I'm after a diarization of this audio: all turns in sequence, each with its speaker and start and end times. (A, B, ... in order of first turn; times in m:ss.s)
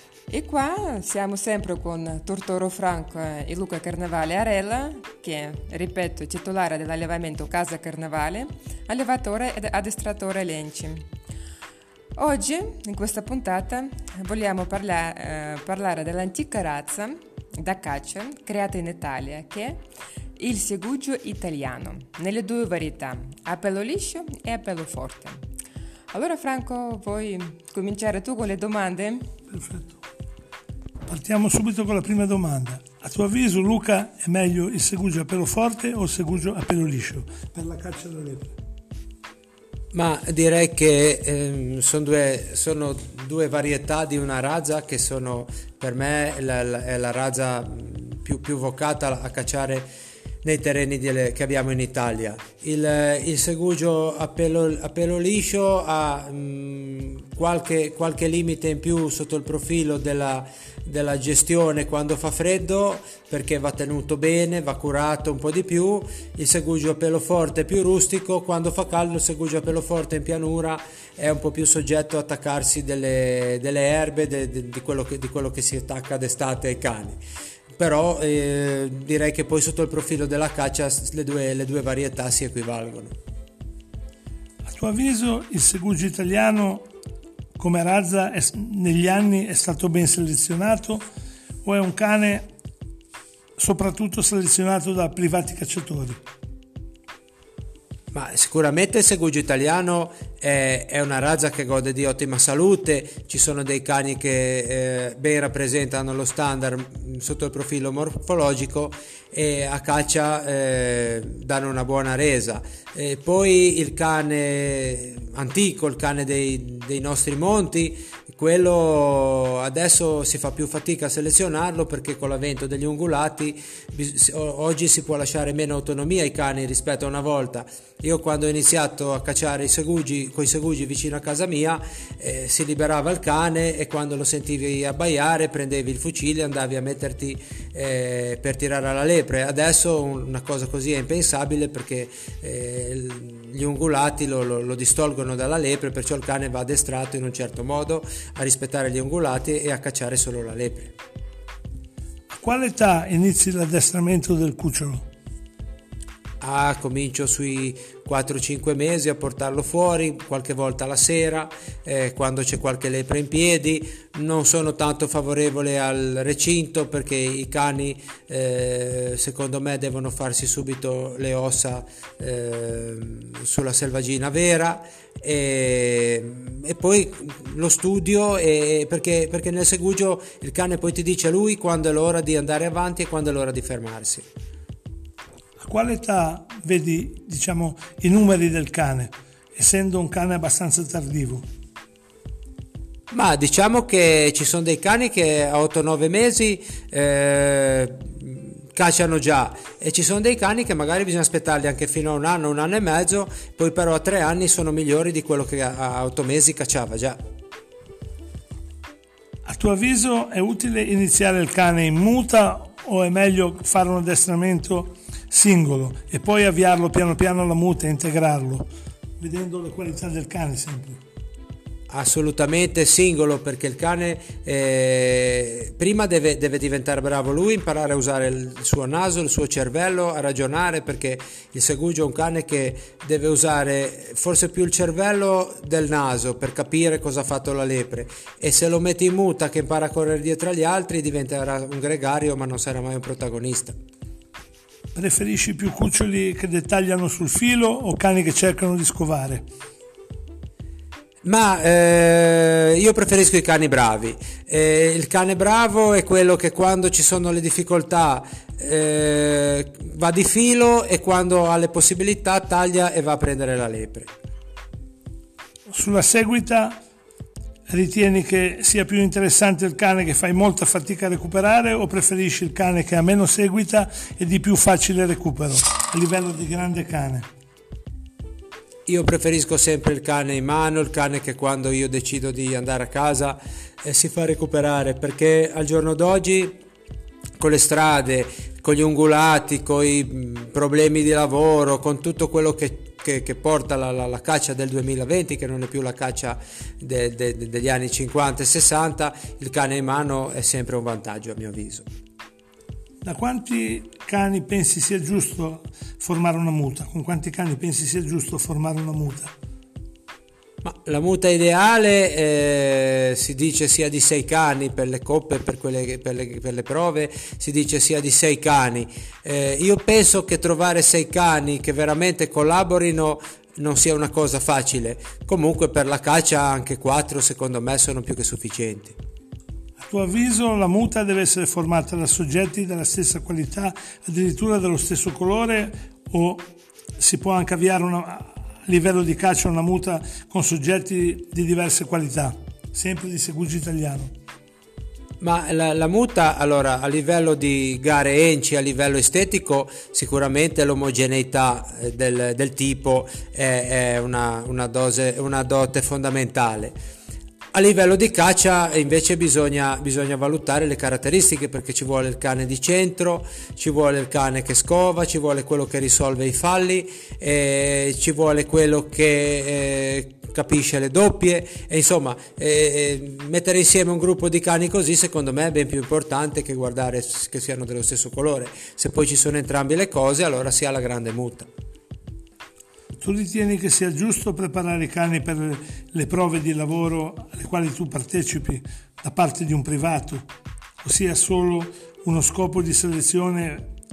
0:00.3-0:11.0 A
0:12.2-0:19.8 A
0:20.4-0:25.4 A
0:26.1-0:29.2 A
0:29.5-0:30.0 B
0:31.1-0:38.5 B
0:39.9-0:49.9 C
0:50.4-1:17.2 C
1:17.8-1:23.1 C
1:24.6-1:26.9 B
1:27.6-1:31.0 B
1:31.6-1:32.4 B
1:33.6-1:36.2 B
1:38.1-2:30.9 C
2:32.3-2:35.0 B
2:36.4-3:04.2 C
3:05.6-3:11.4 B
3:13.1-3:27.2 C
3:29.4-3:38.7 B
3:39.2-3:41.0 B
3:41.9-4:03.8 C
4:04.9-4:09.4 B
4:11.2-4:24.1 C
4:25.7-4:26.8 B
4:27.7-4:37.3 B
4:38.9-4:46.6 C
4:47.4-5:01.8 C
5:03.0-5:09.3 B
5:10.6-5:28.9 C
5:29.8-5:44.1 B
5:45.2-5:56.7 C
5:57.5-6:21.5 C
6:23.0-6:30.2 B
6:30.8-6:33.7 B